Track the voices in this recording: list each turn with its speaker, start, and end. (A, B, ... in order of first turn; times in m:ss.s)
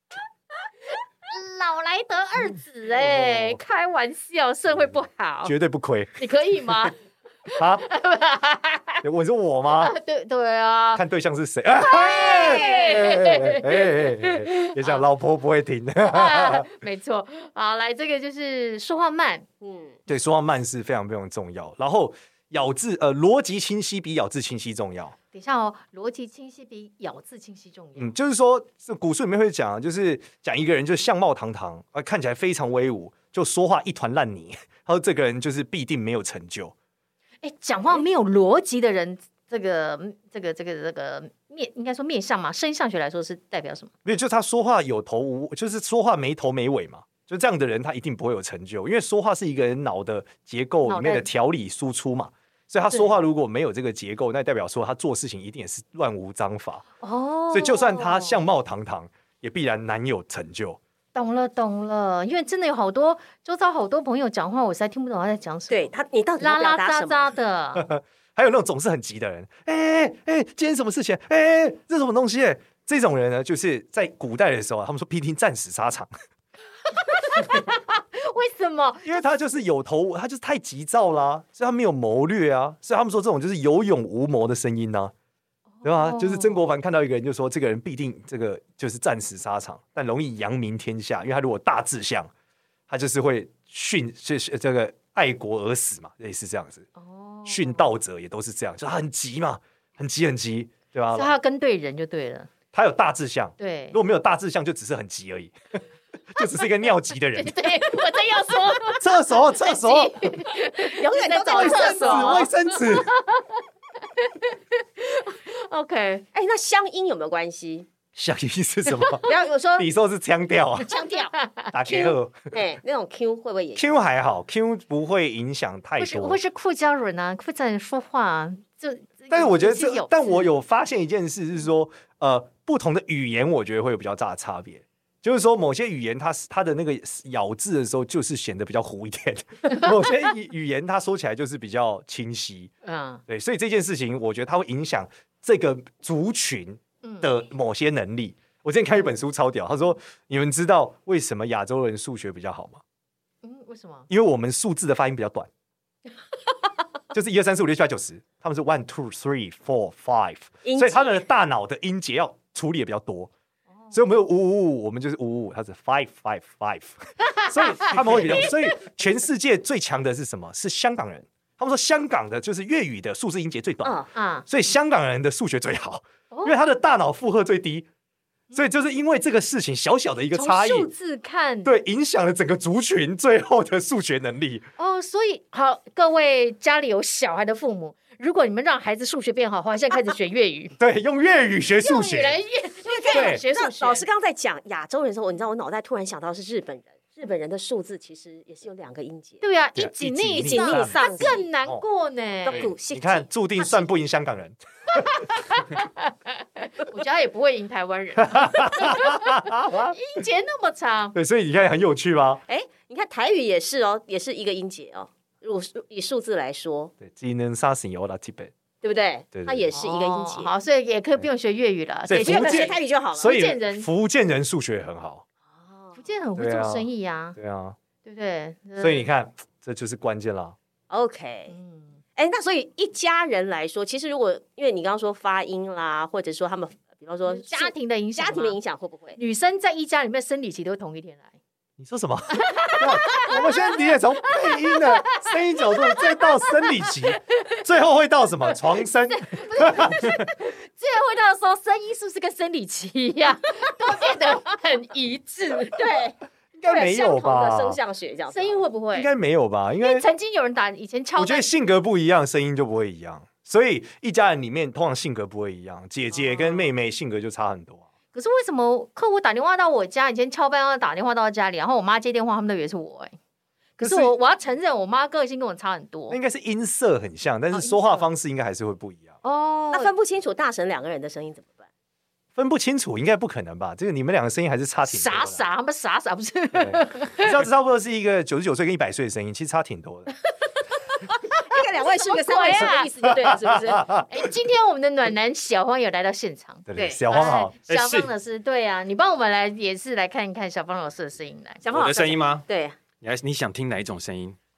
0:01.2-0:05.5 A
0:02.9-0:03.6 B
0:05.4-0:06.2 B
0:06.2-0:07.0 A
0:07.6-0:07.8 B
0:07.8-0:09.0 A
0:09.0-0:09.9 B
0:09.8-0:11.0 A
0:10.9-0:16.7 B
0:11.8-0:15.0 A
0:12.2-0:13.3 C
0:16.0-0:19.4 A
0:19.6-0:20.0 C
0:20.1-0:25.2 B
0:25.3-0:28.1 A
0:28.0-0:36.7 B
0:37.4-0:43.9 A
0:44.0-0:56.8 B
0:50.8-0:51.3 A
0:57.0-0:58.4 A
0:57.5-1:00.8 B
1:01.1-1:07.9 A
1:05.7-1:07.3 C
1:07.7-1:16.1 B
1:16.9-1:19.2 A
1:19.0-1:25.1 B
1:25.8-1:26.6 A
1:25.8-1:32.3 B
1:32.9-1:36.9 B
1:37.0-1:37.8 A
1:37.4-1:41.3 B
1:41.1-1:42.5 A
1:42.7-1:45.8 B
1:43.6-1:44.0 A
1:46.3-1:47.8 B
1:47.3-1:53.5 A
1:48.9-1:50.3 B
1:50.9-1:52.5 C
1:51.5-1:53.1 B
1:54.2-1:56.2 A
1:56.3-1:57.9 C
1:58.2-1:59.2 B
1:59.2-1:59.9 C
1:59.8-2:00.9 B
2:00.9-2:01.3 C
2:01.0-2:01.7 A
2:01.7-2:02.4 B
2:01.8-2:03.9 C
2:03.8-2:06.4 B
2:06.0-2:10.5 A
2:09.3-2:22.7 B
2:22.8-2:23.2 A
2:23.3-2:32.8 B
2:27.0-2:27.3 A
2:33.4-2:34.1 A
2:34.1-2:35.5 B
2:37.1-2:43.3 B
2:40.6-2:41.2 C
2:43.9-2:57.9 B
2:47.4-2:48.5 A
2:53.8-2:54.1 C
2:54.1-2:54.4 A
2:58.5-3:00.9 B
3:00.3-3:01.7 A
3:01.6-3:04.6 B
3:04.8-3:10.7 A
3:10.8-3:12.4 B
3:11.8-3:14.1 A
3:12.8-3:19.4 C
3:13.1-3:13.4 B
3:19.4-3:22.7 A
3:19.8-3:21.8 B
3:20.4-3:21.4 C
3:22.4-3:23.8 C
3:22.9-3:25.2 B
3:25.0-3:31.1 A
3:28.2-3:30.0 B
3:31.1-3:32.4 B
3:32.5-3:36.9 C
3:37.0-3:38.5 B
3:38.8-3:40.5 C
3:39.3-3:39.7 B
3:39.7-3:43.9 A
3:42.1-3:45.2 B
3:42.2-3:43.3 C
3:45.6-3:46.0 C
3:46.0-3:47.4 A
3:46.4-3:47.8 B
3:48.0-3:49.1 A
3:48.8-3:50.6 B
3:50.9-3:51.5 C
3:51.5-3:51.9 A
3:52.2-3:59.2 C
3:57.3-3:58.6 A
3:59.2-4:01.3 A
4:01.8-4:10.2 B
4:02.3-4:03.8 A
4:04.3-4:05.2 A
4:05.8-4:07.0 A
4:09.1-4:15.8 A
4:15.7-4:16.2 C
4:16.6-4:17.8 B
4:16.7-4:18.6 C
4:18.3-4:19.1 A
4:18.9-4:20.1 B
4:19.8-4:21.4 A
4:21.2-4:27.8 B
4:28.1-4:33.1 A
4:33.8-4:36.2 A
4:33.8-4:34.1 B
4:36.1-4:39.1 B
4:37.5-4:38.1 A
4:39.2-4:39.9 A
4:39.7-4:41.6 C
4:42.4-4:45.4 B
4:44.9-4:47.4 A
4:46.5-4:50.1 B
4:51.4-4:53.9 C
4:51.9-4:52.9 A
4:53.1-4:54.2 B
4:54.0-5:01.6 A
4:56.7-4:57.5 B
4:56.8-4:57.0 C
4:57.7-4:58.1 D
5:01.6-5:02.8 C
5:01.7-5:02.4 D
5:03.0-5:04.4 D